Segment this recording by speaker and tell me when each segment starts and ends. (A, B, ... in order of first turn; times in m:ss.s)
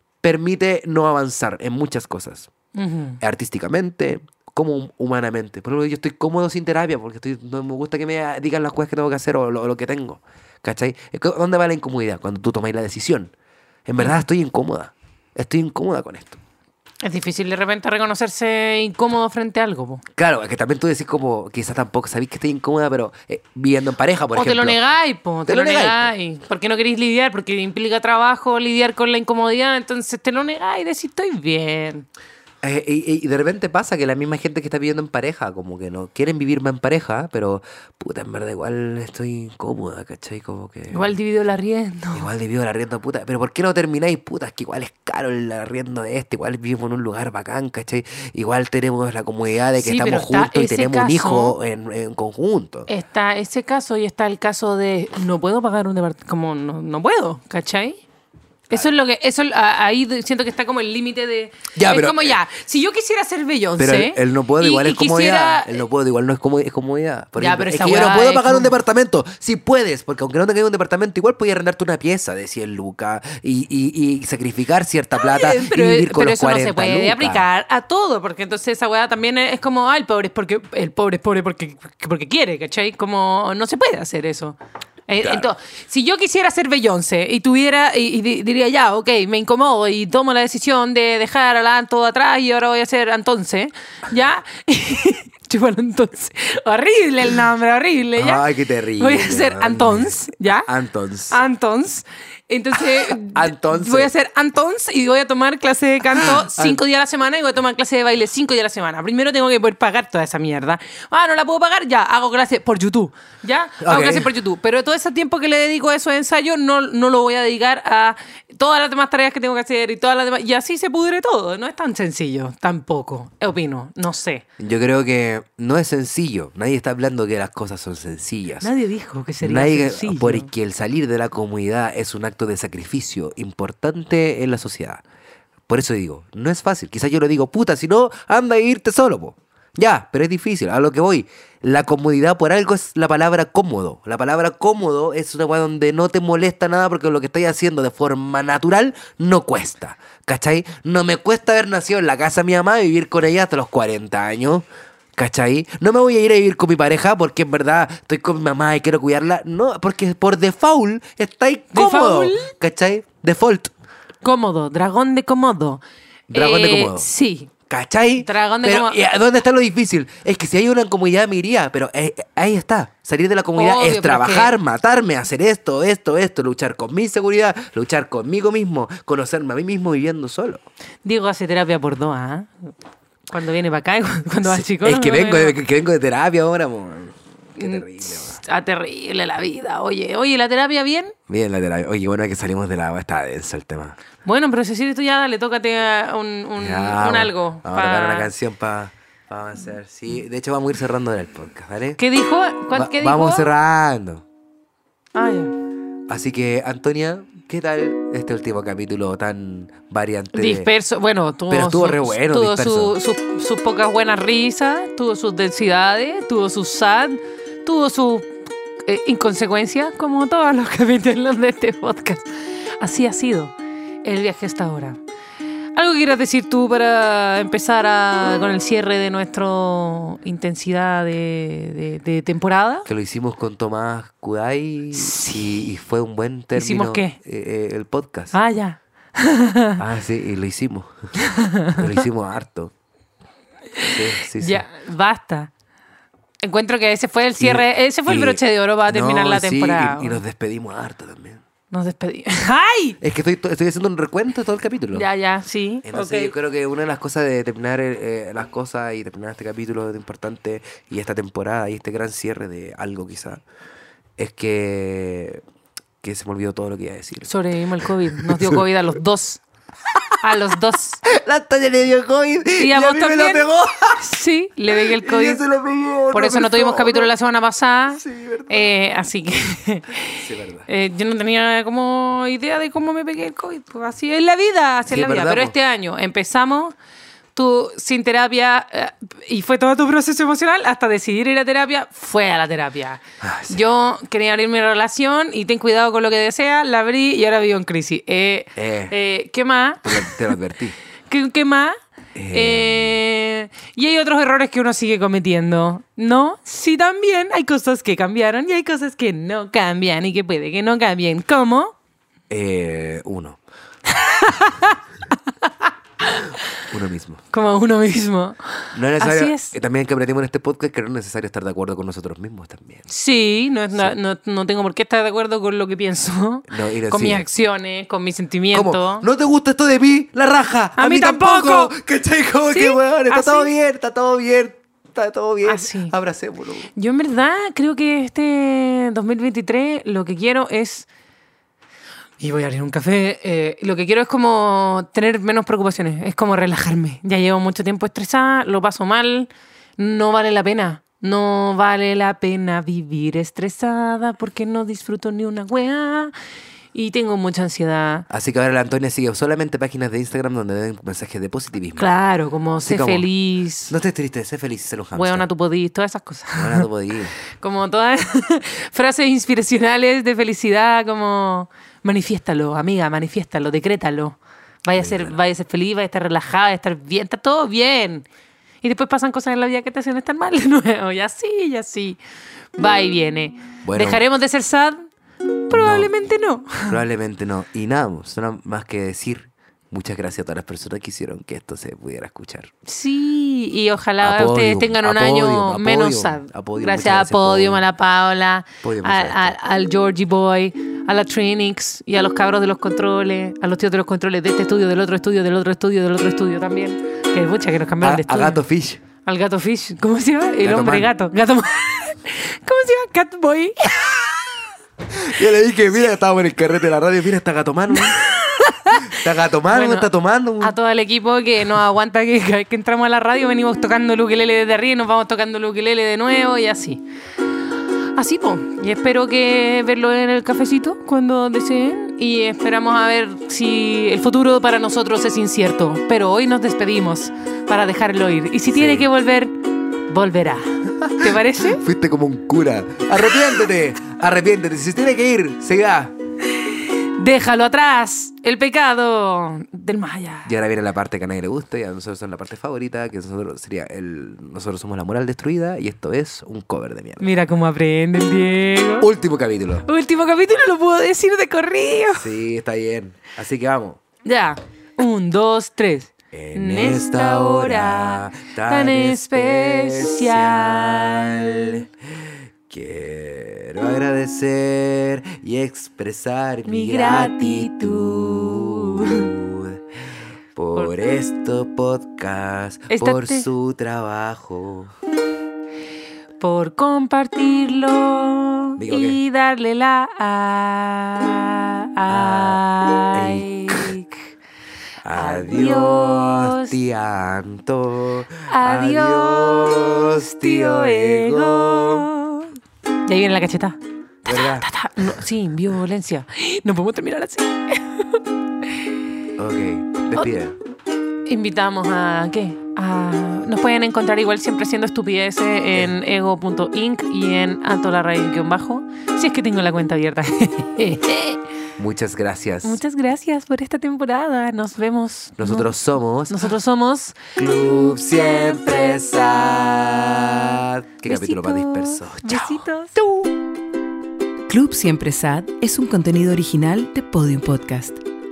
0:00.2-0:02.5 A
0:02.7-0:03.2 B
0:03.2-0:13.3 A
0:13.8-0:16.4 A
0:14.0-0:14.2 B
0:17.0-0:20.0 B
0:20.2-0:24.8 A
0:24.3-0:32.0 B
0:25.4-0:26.1 A
0:32.6-0:41.1 A
0:40.9-0:42.3 B
0:42.1-0:52.9 A
0:49.7-0:51.6 B
0:52.9-0:58.0 B
0:58.7-1:05.8 B
1:01.7-1:02.3 A
1:03.8-1:17.4 A
1:07.4-1:08.7 B
1:15.1-1:24.6 B
1:25.1-1:38.5 B
1:25.2-1:25.5 A
1:38.2-1:41.4 A
1:39.0-1:40.7 B
1:41.3-2:04.4 B
1:43.1-1:44.1 A
1:46.2-1:46.8 A
1:53.8-1:54.3 A
2:04.6-2:08.7 A
2:08.6-2:10.5 B
2:09.4-2:15.0 A
2:15.7-2:34.6 A
2:35.2-2:43.7 A
2:41.7-2:42.5 B
2:44.2-2:47.5 B
2:46.3-2:47.1 A
2:47.7-3:00.6 A
2:48.2-2:49.0 B
2:53.6-2:54.5 B
3:01.0-3:02.7 B
3:03.3-3:05.6 B
3:04.4-3:08.4 A
3:07.6-3:11.1 B
3:11.3-3:14.0 A
3:14.2-3:18.3 B
3:16.6-3:22.0 A
3:22.0-3:23.5 B
3:22.7-3:24.2 A
3:25.1-3:25.5 B
3:26.1-3:30.7 A
3:30.3-3:42.3 B
3:31.5-3:33.0 A
3:42.8-3:45.0 B
3:45.7-3:52.9 B
3:52.8-3:58.3 A
3:54.9-3:55.6 B
3:56.5-3:57.2 B
3:58.3-3:59.8 B
3:59.8-4:00.9 A
4:01.2-4:02.0 B
4:01.7-4:02.7 A
4:03.8-4:05.5 B
4:03.8-4:04.6 A
4:06.4-4:10.2 B
4:07.4-4:11.4 A
4:11.7-4:13.0 B
4:13.0-4:15.1 A
4:14.9-4:16.3 B
4:15.8-4:23.4 A
4:24.2-4:25.4 A
4:26.0-4:27.3 A
4:27.2-4:29.4 B
4:27.9-4:28.6 A
4:30.2-4:31.0 B
4:31.0-4:34.0 A
4:32.6-4:33.4 B
4:34.0-4:35.4 B
4:34.7-4:37.1 A
4:36.1-4:46.7 B
4:38.0-4:38.7 A
4:40.1-4:40.7 A
4:44.9-4:45.5 A
4:47.3-5:00.3 B
4:53.2-4:53.6 A
4:58.6-4:58.9 A
4:59.8-5:00.7 A
5:01.1-5:01.8 B
5:02.1-5:03.0 A
5:02.3-5:11.7 B
5:12.3-5:13.4 A
5:13.8-5:14.8 B
5:15.4-5:16.3 B
5:16.7-5:17.2 A
5:17.3-5:18.4 B
5:18.7-5:22.8 A
5:19.0-5:19.5 B
5:22.9-5:29.0 B
5:26.5-5:27.2 A
5:28.5-5:36.7 A
5:30.8-5:31.7 B
5:32.5-5:33.5 B
5:35.4-5:35.9 B
5:36.7-5:40.9 B
5:42.2-5:56.1 B
5:56.7-5:58.1 B
5:58.1-6:01.9 A
6:01.8-6:03.7 B
6:02.6-6:03.1 A
6:03.7-6:05.2 A
6:04.9-6:06.7 B
6:06.3-6:07.1 A
6:07.4-6:18.0 B
6:14.7-6:15.2 A
6:18.6-6:22.0 B
6:22.6-6:24.9 B
6:23.6-6:24.0 A
6:25.5-6:26.8 B
6:25.5-6:25.9 A
6:26.7-6:32.5 A
6:32.6-6:48.4 B
6:34.0-6:37.6 A
6:38.6-6:39.4 A
6:47.8-6:48.8 A
6:49.0-6:54.4 B
6:50.4-6:50.9 A
6:54.9-6:58.0 A
6:57.7-6:58.9 B
6:58.8-7:00.5 A
6:59.5-7:06.8 B
7:07.9-7:21.6 B
7:18.5-7:18.9 A
7:20.8-7:25.9 A
7:26.4-7:30.3 B
7:30.2-7:37.1 A
7:37.0-7:38.9 B
7:38.8-7:39.7 A
7:39.7-7:42.1 B
7:41.9-7:43.8 A
7:44.0-7:51.6 B
7:46.1-7:51.6 A
7:52.5-7:59.6 A
7:56.4-7:59.1 B
8:00.3-8:04.7 A
8:02.7-8:03.2 B
8:06.2-8:14.1 B
8:08.6-8:09.0 A
8:11.9-8:13.7 A
8:14.8-8:21.9 A
8:14.9-8:16.6 B
8:18.3-8:28.0 B
8:24.0-8:24.5 A
8:29.2-8:30.3 A
8:31.0-8:41.2 B
8:41.6-8:42.6 A
8:42.4-8:45.5 B
8:45.2-8:46.3 A
8:46.1-8:47.0 B
8:47.1-8:52.4 A
8:48.0-8:48.9 B
8:50.8-8:52.7 B
8:54.3-8:57.8 C